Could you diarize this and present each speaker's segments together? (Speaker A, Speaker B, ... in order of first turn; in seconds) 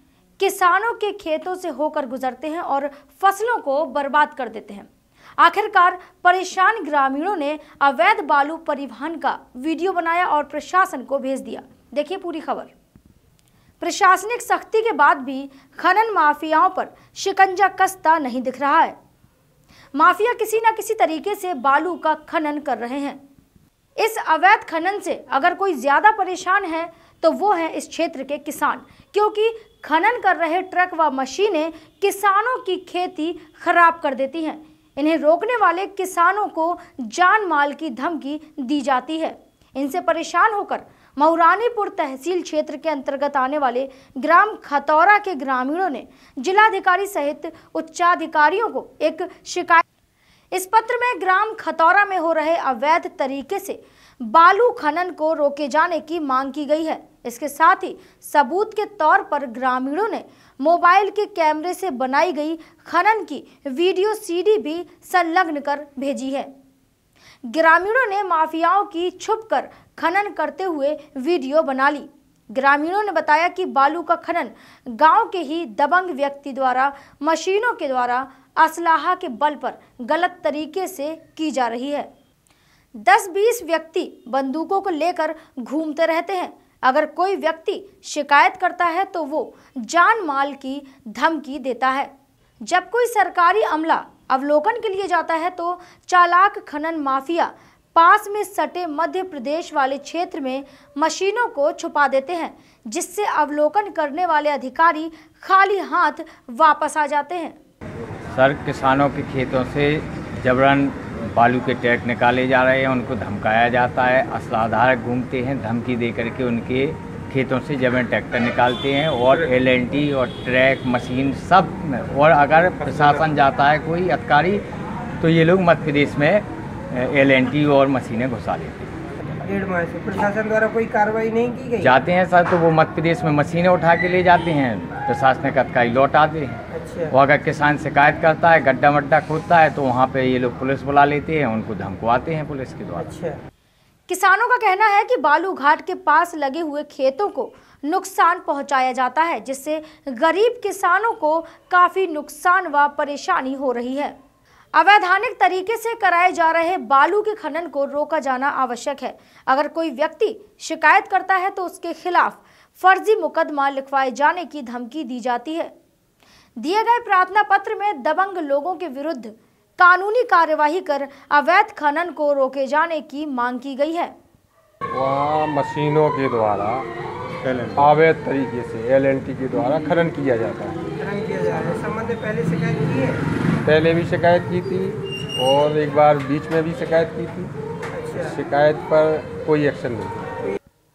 Speaker A: 0.4-12.7, 13.8-18.9, 19.9-23.2, 24.0-49.8, 50.5-66.5, 67.4-82.1, 83.0-92.1, 92.6-107.6, 144.1-154.2, 154.7-165.7, 166.6-174.2
Speaker B: 108.3-124.6, 125.2-128.9, 131.8-143.2
Speaker C: 129.4-131.9, 136.7-137.1, 143.0-143.4, 181.0-183.2, 187.9-188.3
Speaker D: 174.9-176.9, 177.6-180.9, 183.6-187.5, 188.2-190.3